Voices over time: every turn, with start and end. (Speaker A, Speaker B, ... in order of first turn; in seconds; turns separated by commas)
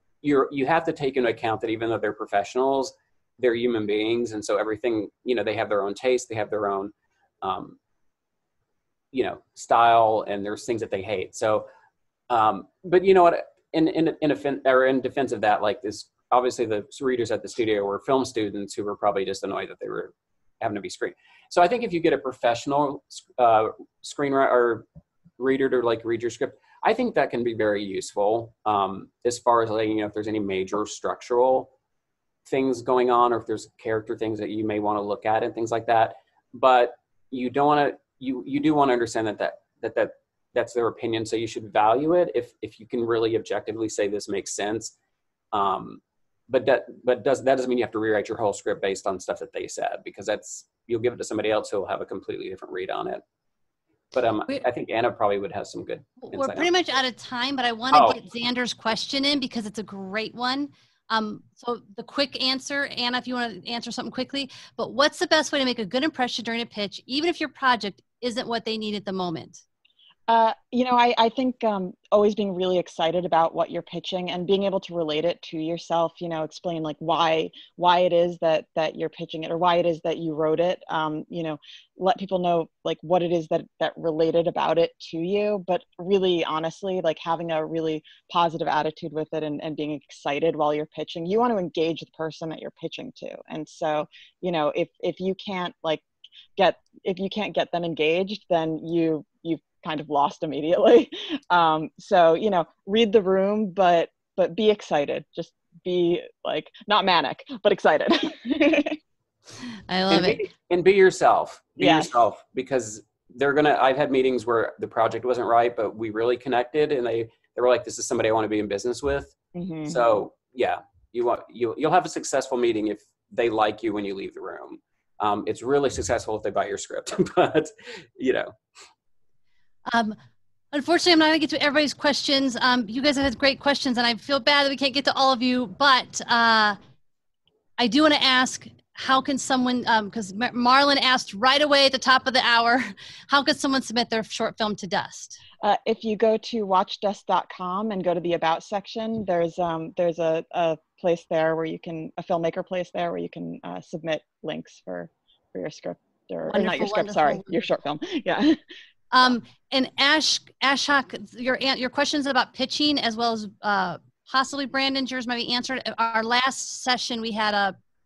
Speaker A: 0.2-7.8, Speaker A: 9.1-11.7, Speaker A: 12.3-24.9, Speaker A: 25.4-31.7, Speaker A: 32.5-45.0, Speaker A: 45.5-53.2, Speaker A: 54.1-56.7, Speaker B: 56.2-69.6, Speaker A: 57.9-58.2, Speaker C: 70.3-96.0, Speaker C: 96.6-109.0, Speaker B: 109.9-110.5, Speaker A: 110.1-128.5, Speaker C: 111.8-112.1, Speaker C: 119.5-120.0, Speaker B: 129.9-130.2, Speaker B: 130.7-136.8, Speaker B: 137.8-145.4, Speaker C: 145.6-158.6, Speaker B: 156.5-157.5, Speaker B: 159.1-167.8